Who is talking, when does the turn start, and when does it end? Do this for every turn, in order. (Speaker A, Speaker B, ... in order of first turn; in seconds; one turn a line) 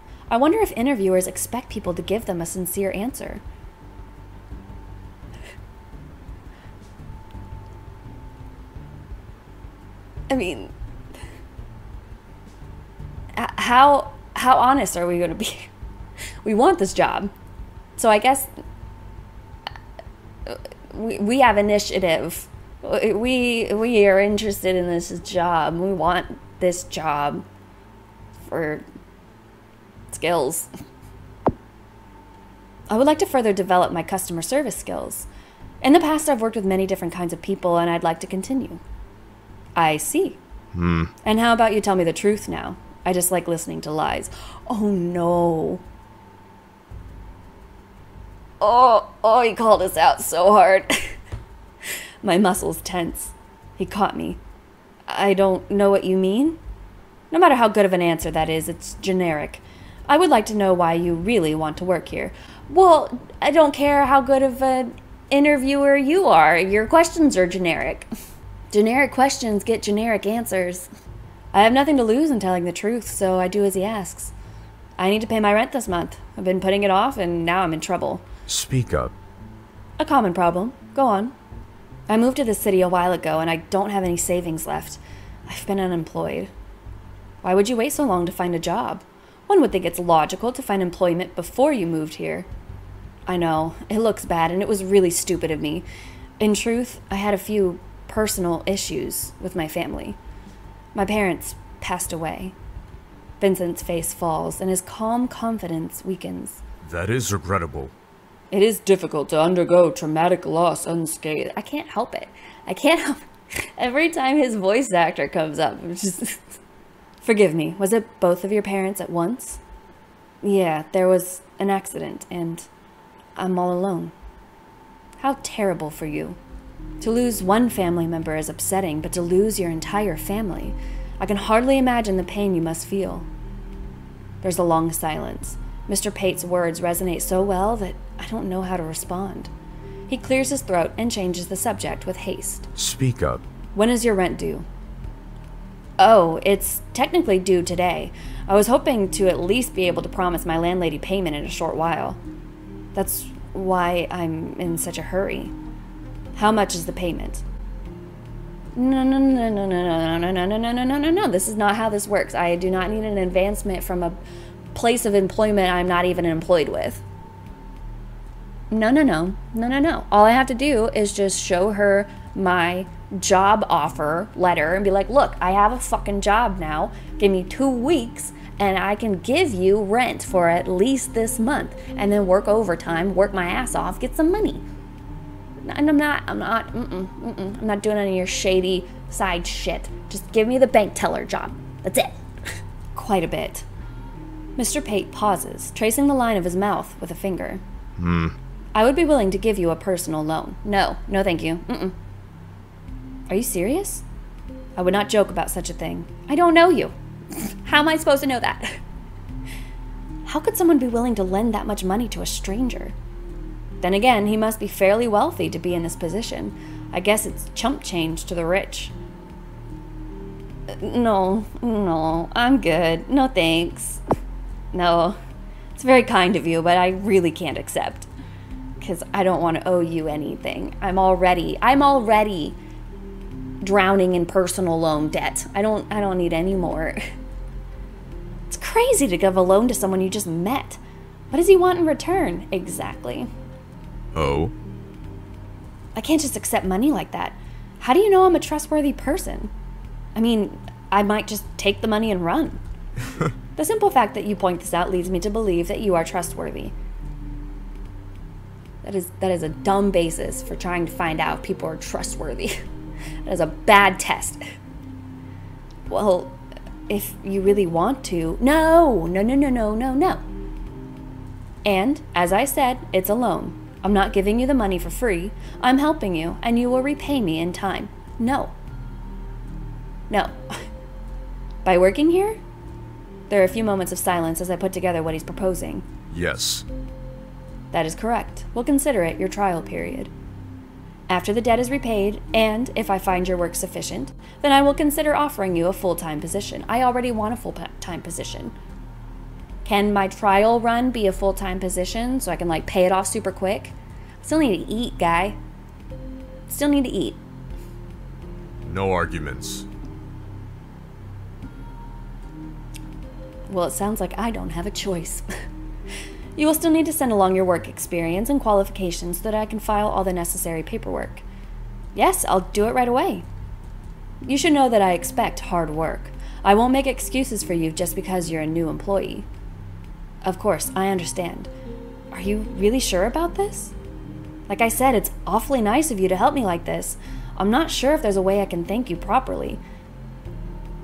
Speaker A: 0.3-3.4
Speaker A: 10.3-10.7
Speaker A: 13.3-15.7
Speaker A: 16.4-17.3
Speaker A: 18.0-18.5
Speaker A: 20.4-27.4
Speaker A: 28.4-28.8
Speaker A: 30.1-30.7
Speaker A: 32.9-35.3
Speaker A: 35.8-38.8
Speaker A: 39.8-40.4
Speaker B: 40.7-41.1
Speaker A: 41.2-45.8
Speaker A: 48.6-51.2
Speaker A: 52.2-54.4
Speaker A: 55.1-56.6
Speaker A: 57.3-68.1
Speaker A: 68.7-70.9
Speaker A: 71.5-74.3
Speaker A: 75.0-78.2
Speaker B: 78.5-79.1
Speaker A: 80.0-81.3
Speaker A: 82.1-86.5
Speaker A: 87.4-92.5
Speaker A: 93.3-95.8
Speaker A: 96.4-100.2
Speaker A: 100.9-102.5
Speaker A: 103.4-106.6
Speaker B: 106.8-107.9
Speaker A: 108.5-109.0
Speaker C: 109.0-111.3
Speaker A: 111.3-116.4
Speaker A: 117.2-119.6
Speaker A: 120.4-122.7
Speaker A: 123.4-124.1
Speaker A: 125.2-126.4
Speaker A: 127.0-133.3
Speaker A: 134.4-139.5
Speaker A: 140.1-142.7
Speaker B: 142.8-143.4
Speaker A: 143.8-144.6
Speaker A: 146.0-152.2
Speaker A: 152.9-155.5
Speaker A: 156.3-157.4
Speaker A: 158.7-164.2
Speaker A: 164.7-167.0
Speaker A: 168.7-184.6
Speaker A: 185.6-193.6
Speaker A: 194.6-197.6
Speaker B: 198.0-198.3
Speaker A: 198.7-201.9
Speaker A: 203.3-204.0
Speaker A: 204.8-206.9
Speaker A: 207.6-208.8
Speaker A: 210.2-212.9
Speaker A: 213.8-218.9
Speaker A: 220.7-224.0
Speaker A: 224.7-225.2
Speaker A: 225.8-228.1
Speaker A: 228.8-232.6
Speaker A: 233.6-237.0
Speaker A: 238.5-240.8
Speaker A: 241.3-243.3
Speaker B: 244.1-244.5
Speaker A: 245.9-249.5
Speaker A: 250.1-252.6
Speaker A: 253.6-256.7
Speaker A: 258.8-262.6
Speaker A: 263.2-264.4
Speaker A: 265.9-266.4
Speaker A: 266.9-270.2
Speaker A: 271.6-278.5
Speaker A: 280.1-280.6
Speaker A: 281.6-282.4
Speaker A: 283.3-285.9
Speaker B: 286.1-286.6
Speaker A: 287.7-290.1
Speaker A: 291.1-298.5
Speaker A: 299.6-305.4
Speaker A: 306.5-307.2
Speaker B: 308.6-309.6
Speaker A: 313.5-315.2
Speaker A: 316.4-321.2
Speaker A: 321.9-323.2
Speaker A: 324.2-329.2
Speaker A: 330.2-331.5
Speaker A: 332.1-333.7
Speaker A: 334.5-339.6